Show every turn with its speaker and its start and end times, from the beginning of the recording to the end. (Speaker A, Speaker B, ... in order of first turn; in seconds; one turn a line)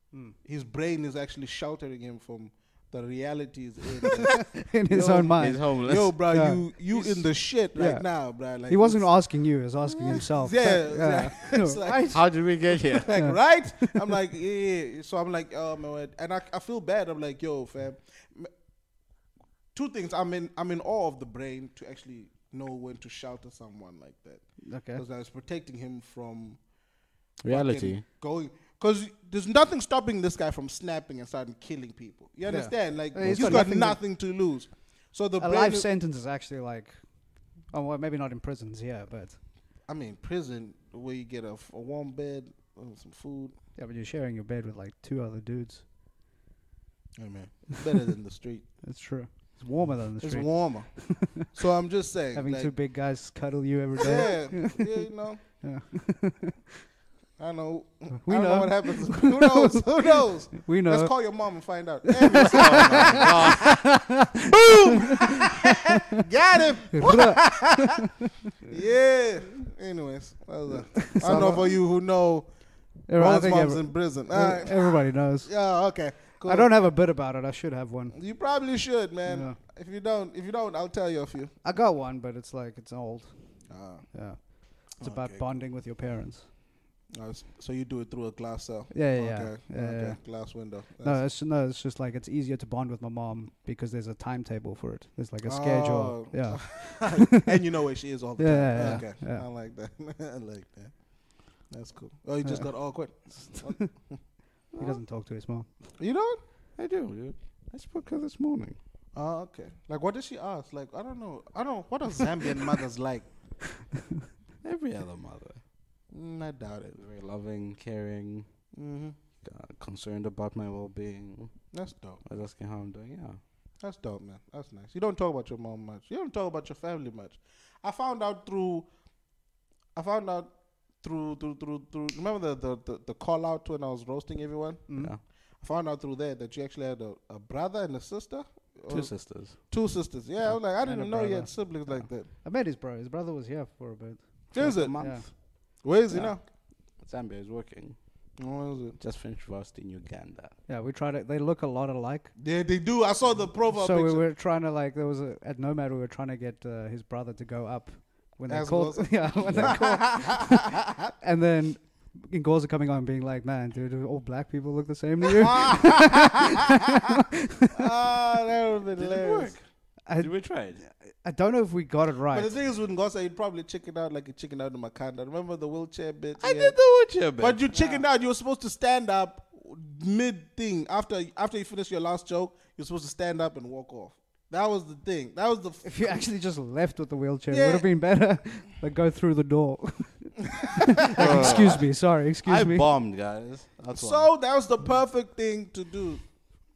Speaker A: 0.3-9.2
Speaker B: 4.4-12.2
Speaker C: 5.4-6.2
Speaker A: 9.9-18.5
Speaker C: 12.1-13.2
Speaker B: 13.2-14.0
Speaker A: 19.7-26.6
Speaker B: 24.6-25.0
Speaker C: 27.4-28.0
Speaker A: 27.5-35.9
Speaker B: 32.5-34.0
Speaker C: 33.2-33.6
Speaker B: 35.4-39.4
Speaker A: 39.9-43.6
Speaker B: 43.8-45.8
Speaker A: 47.2-48.7
Speaker B: 48.8-51.5
Speaker A: 50.2-52.8
Speaker B: 52.3-56.6
Speaker A: 54.0-55.4
Speaker A: 57.4-63.6
Speaker B: 58.2-61.3
Speaker B: 62.1-66.2
Speaker C: 62.3-64.0
Speaker A: 64.5-68.0
Speaker B: 66.9-68.1
Speaker A: 68.7-72.5
Speaker B: 70.9-71.8
Speaker B: 73.1-75.5
Speaker A: 73.1-76.7
Speaker B: 76.4-78.2
Speaker A: 78.1-81.6
Speaker B: 79.3-79.6
Speaker B: 81.6-86.5
Speaker A: 83.7-85.6
Speaker A: 87.1-91.2
Speaker B: 88.9-90.2
Speaker B: 91.0-97.6
Speaker A: 95.5-104.2
Speaker B: 98.4-99.5
Speaker B: 102.4-102.9
Speaker B: 103.4-103.9
Speaker C: 104.7-105.0
Speaker B: 104.8-105.7
Speaker A: 106.0-106.4
Speaker C: 106.8-108.8
Speaker A: 109.1-113.3
Speaker C: 114.6-115.6
Speaker A: 116.1-117.0
Speaker C: 117.0-118.5
Speaker A: 118.7-119.2
Speaker C: 119.4-121.7
Speaker A: 121.7-122.2
Speaker C: 122.2-123.4
Speaker A: 123.8-128.9
Speaker A: 129.9-142.3
Speaker B: 134.9-135.2
Speaker C: 138.9-139.6
Speaker B: 140.4-146.3
Speaker A: 144.5-146.4
Speaker C: 144.6-145.3
Speaker C: 147.0-148.0
Speaker A: 148.4-149.0
Speaker C: 149.0-150.6
Speaker B: 150.7-152.3
Speaker A: 152.4-154.3
Speaker B: 153.7-167.7
Speaker A: 158.5-161.1
Speaker C: 159.4-159.8
Speaker A: 165.4-166.4
Speaker A: 167.7-169.6
Speaker C: 168.9-170.8
Speaker B: 170.1-172.5
Speaker A: 172.3-186.3
Speaker C: 176.4-177.6
Speaker B: 177.7-178.1
Speaker B: 185.8-192.9
Speaker A: 187.5-187.9
Speaker A: 190.8-191.8
Speaker C: 191.1-194.3
Speaker A: 193.9-196.3